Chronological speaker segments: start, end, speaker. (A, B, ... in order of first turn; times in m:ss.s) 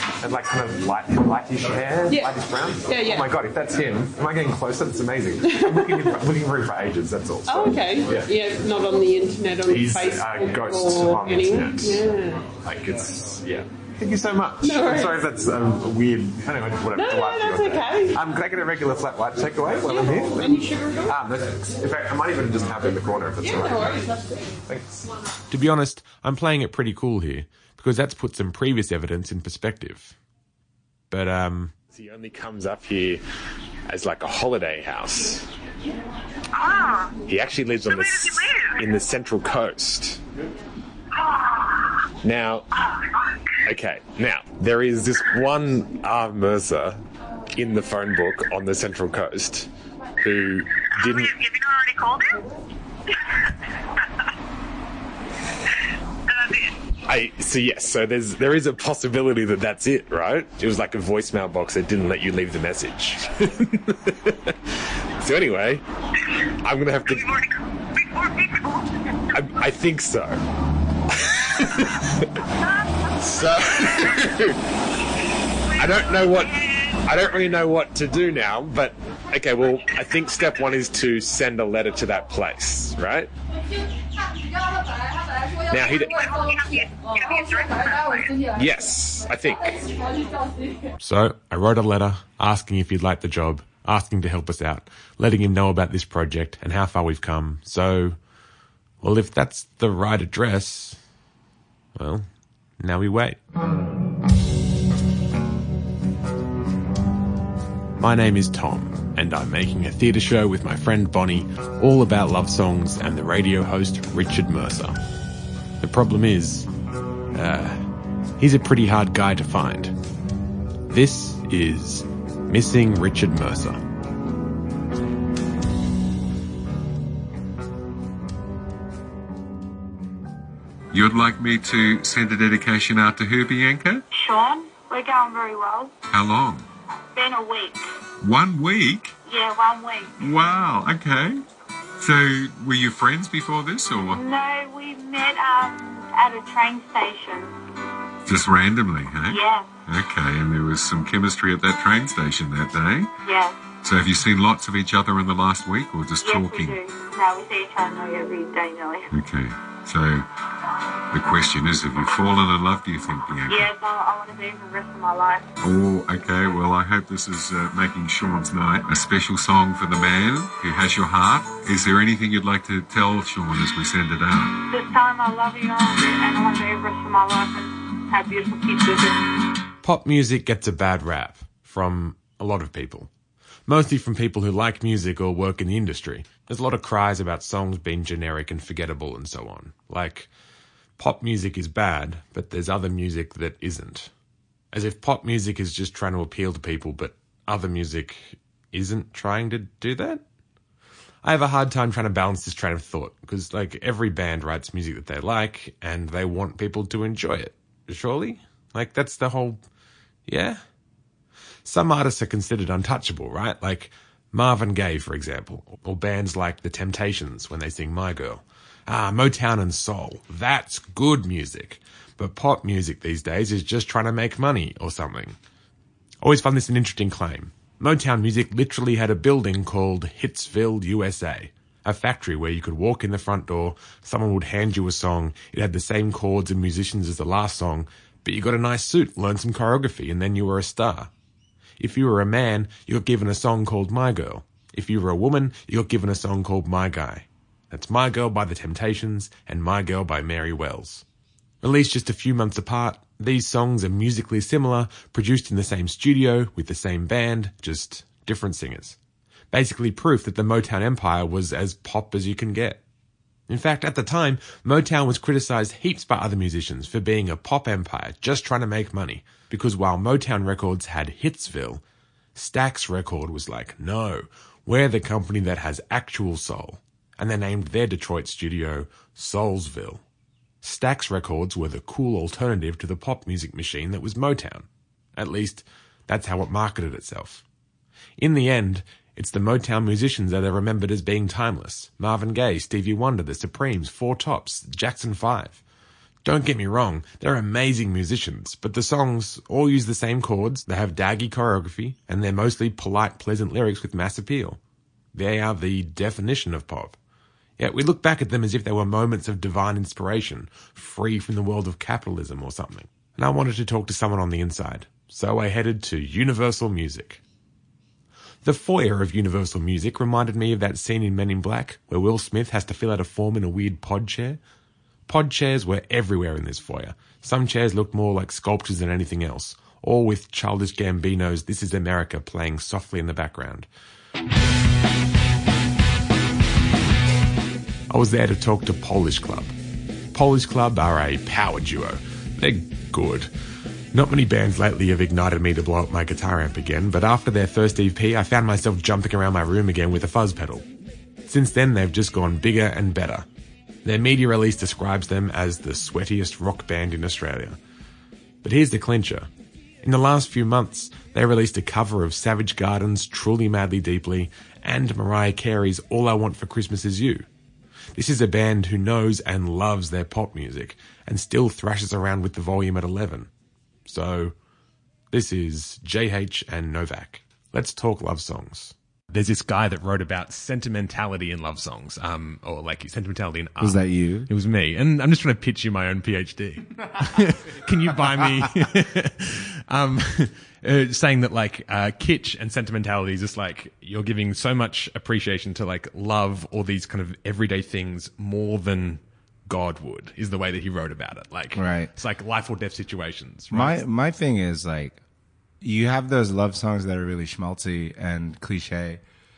0:00.2-0:08.3 A
0:02.1-0:03.3 B
0:05.4-0:06.2 B
0:07.5-0:12.6 B
0:09.7-0:12.1 A
0:12.6-0:24.1 A
0:14.6-0:15.2 B
0:17.0-0:18.2 B
0:19.8-0:21.2 B
0:23.4-0:24.6 B
0:24.7-0:30.2 A
0:31.1-0:33.2 A
0:33.9-0:35.4 A
0:36.5-0:37.2 C
0:37.2-0:40.2 A
0:37.8-0:38.8 C
0:41.2-0:41.9 C
0:42.2-0:42.6 A
0:43.6-0:47.0 A
0:47.5-0:49.7 A
0:50.2-0:51.3 A
0:51.0-0:52.5 C
0:56.3-0:56.7 C
0:57.0-1:04.5 A
1:05.2-1:05.8 A
1:06.6-1:07.3 A
1:07.1-1:09.1 C
1:09.3-1:10.4 A
1:11.4-1:12.1 A
1:13.2-1:14.5 A
1:15.8-1:16.5 A
1:15.8-1:17.0 C
1:17.0-1:23.3 A
1:25.7-1:26.3 A
1:25.8-1:28.4 C
1:28.5-1:29.9 A
1:31.0-1:38.2 A
1:39.0-1:41.0 A
1:42.0-1:42.3 A
1:42.8-1:43.4 A
1:48.0-1:55.0 A
1:55.8-1:56.7 A
1:57.3-1:59.9 A
2:00.9-2:03.8 A
2:10.9-2:14.0 D
2:14.1-2:15.9 C
2:16.1-2:16.7 D
2:17.1-2:17.9 C
2:18.2-2:19.2 D
2:19.3-2:20.2 C
2:20.2-2:21.4 D
2:22.0-2:24.2 D
2:24.1-2:27.6 C
2:28.3-2:33.1 D
2:29.3-2:29.7 C
2:33.3-2:33.6 C
2:33.8-2:36.8 D
2:36.2-2:39.1 C
2:39.1-2:40.2 D
2:41.1-2:43.7 D
2:43.5-2:45.5 C
2:45.6-2:54.6 D
2:54.7-2:59.3 C
2:59.8-3:03.1 A
3:03.7-3:10.3 A
3:11.0-3:14.1 A
3:14.7-3:20.2 A
3:21.2-3:29.6 A
3:30.3-3:30.6 A
3:31.6-3:45.4 A
3:46.2-4:01.1 A
4:01.8-4:11.0 A
4:11.6-4:19.0 A
4:19.5-4:22.8 A
4:23.5-4:31.8 A
4:32.4-4:40.0 A
4:40.6-4:47.4 A
4:48.2-4:55.6 A
4:56.2-5:04.6 A
5:05.1-5:07.0 A
5:07.6-5:17.2 A
5:18.4-5:24.4 A
5:25.1-5:33.7 A
5:37.9-5:39.5 A
5:40.1-5:43.3 A
5:43.9-5:50.7 A
5:51.3-5:53.3 A
5:53.8-5:57.6 A
5:58.4-5:59.3 A
5:59.8-6:07.3 A
6:08.0-6:13.3 A
6:13.9-6:14.3 A
6:15.1-6:43.8 A
6:23.6-6:24.3 E
6:41.5-6:41.9 E
6:43.5-6:45.0 E
6:45.6-6:49.0 E